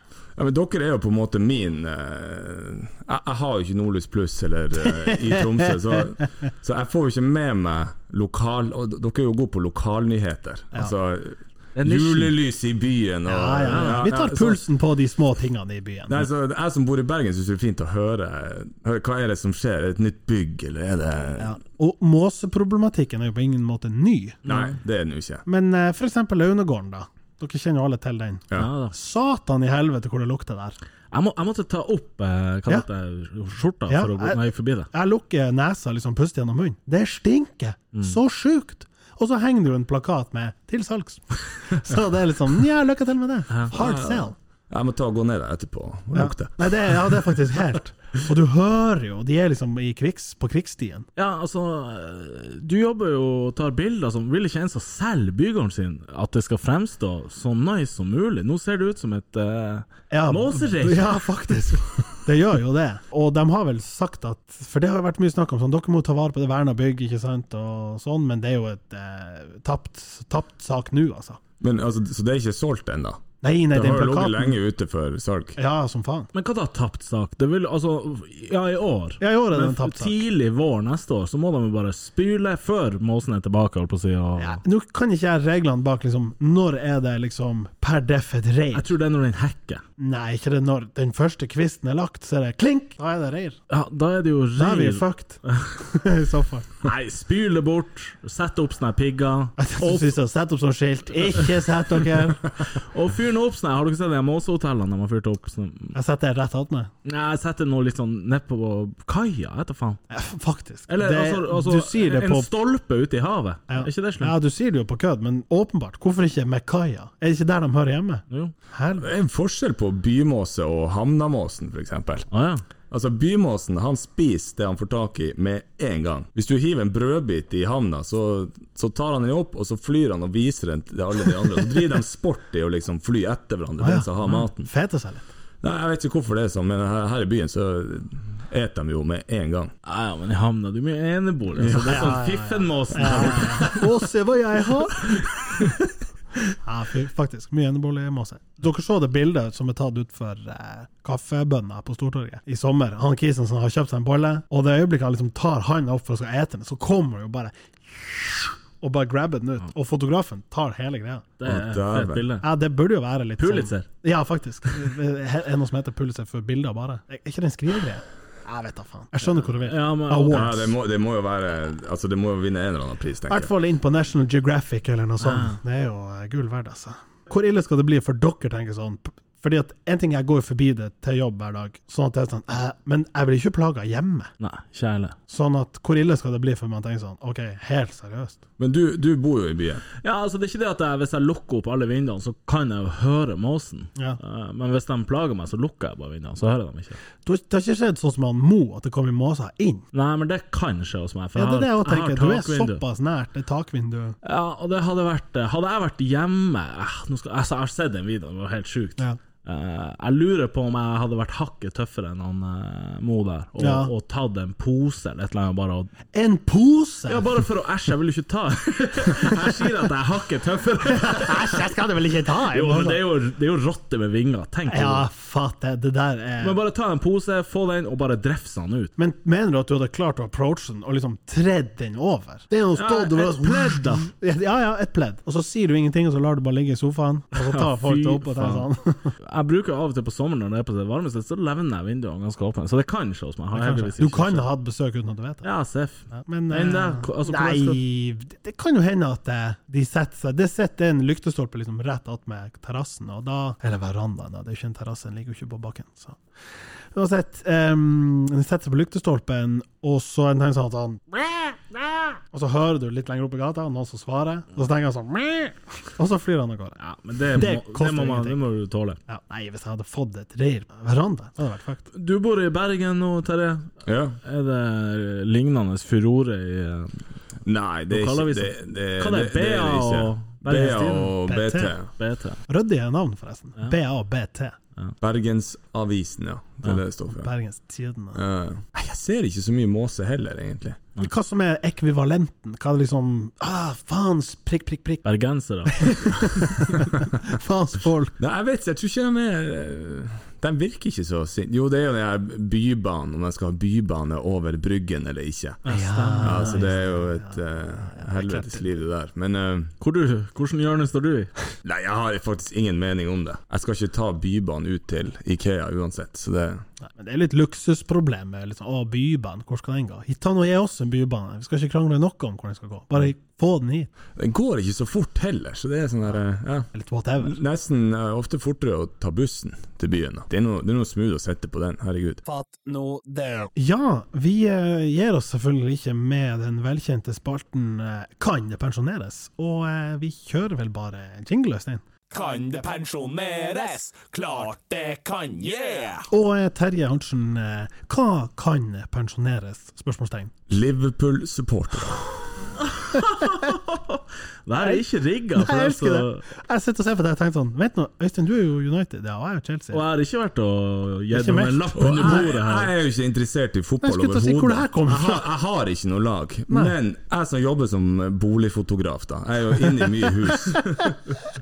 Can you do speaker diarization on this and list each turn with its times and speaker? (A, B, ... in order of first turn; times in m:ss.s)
0:00.4-0:14.6 A
0:11.8-0:12.3 B
0:13.2-0:16.2 C
0:13.7-0:14.0 B
0:16.1-0:21.6 A
0:21.4-0:24.4 C
0:24.4-0:24.7 B
0:24.4-0:25.4 A
0:25.4-0:30.8 C
0:28.5-0:28.9 B
0:31.1-0:34.9 B
0:33.9-0:44.3 C
0:43.7-0:47.2 A
0:46.1-0:51.1 C
0:51.2-1:01.5 B
1:00.1-1:11.4 C
1:11.6-1:15.6 A
1:13.4-1:14.6 C
1:15.6-1:16.3 C
1:16.3-1:24.6 B
1:19.2-1:20.2 C
1:24.4-1:28.9 C
1:28.7-1:29.8 B
1:30.0-1:33.6 C
1:33.7-1:35.7 B
1:34.6-1:36.8 C
1:36.8-1:40.1 B
1:39.6-1:42.5 C
1:42.7-1:45.9 B
1:45.9-1:46.9 C
1:47.0-1:50.0 B
1:50.1-1:52.5 C
1:50.9-1:54.3 B
1:53.7-1:59.1 C
1:59.0-2:02.3 A
2:02.3-2:02.6 B
2:02.9-2:14.7 A
2:13.8-2:15.3 C
2:15.6-2:19.7 A
2:19.8-2:23.8 B
2:21.6-2:22.1 A
2:21.7-2:25.2 C
2:26.6-2:41.3 C
2:41.4-2:42.4 B
2:41.4-2:42.3 A
2:42.4-2:50.7 C
2:43.4-2:43.8 B
2:49.4-2:50.6 B
2:50.3-2:53.5 A
2:53.3-3:04.3 C
2:55.2-2:55.6 B
3:04.4-3:05.2 B
3:05.3-3:08.4 C
3:08.6-3:09.8 A
3:10.0-3:17.0 B
3:17.2-3:19.8 C
3:19.9-3:22.8 B
3:21.3-3:24.2 C
3:24.2-3:35.9 B
3:33.6-3:33.9 C
3:36.1-3:37.3 C
3:37.1-3:41.6 B
3:39.2-3:39.5 C
3:40.9-3:43.0 C
3:42.5-3:45.0 B
3:44.7-3:46.6 C
3:46.4-3:48.9 B
3:49.0-3:59.1 C
3:52.7-3:54.1 B
3:57.3-3:58.7 B
3:59.2-4:04.5 B
4:03.5-4:05.5 C
4:05.4-4:07.8 B
4:06.1-4:16.2 C
4:16.9-4:26.8 C
4:26.8-4:29.0 B
4:27.3-4:28.4 C
4:29.1-4:31.8 C
4:31.9-4:33.7 B
4:33.8-4:34.2 A
4:34.2-4:37.0 B
4:37.4-4:41.9 A
4:37.9-4:41.2 B
4:41.2-4:41.8 C
4:42.0-4:42.4 B
4:42.5-4:44.6 C
4:45.0-4:47.3 A
4:47.1-4:48.2 C
4:48.1-4:50.8 A
4:51.0-4:55.0 C
4:55.0-4:56.5 B
4:55.7-4:58.1 C
4:58.2-5:05.6 A
5:05.6-5:06.6 B
5:05.6-5:08.6 C
5:06.2-5:09.7 A
5:09.8-5:11.3 B
5:11.6-5:16.6 A
5:16.8-5:23.9 C
5:24.2-5:32.2 A
5:26.7-5:27.4 C
5:32.2-5:33.5 D
5:33.6-5:41.8 C
5:42.1-5:46.1 D
5:46.1-5:50.3 C
5:50.5-5:52.1 A
5:52.6-5:56.2 B
5:52.9-5:53.5 C
5:54.6-5:59.8 C
5:59.7-6:02.7 B
6:01.1-6:02.2 C
6:01.8-6:11.0 A
6:03.8-6:05.3 C
6:06.5-6:06.7 C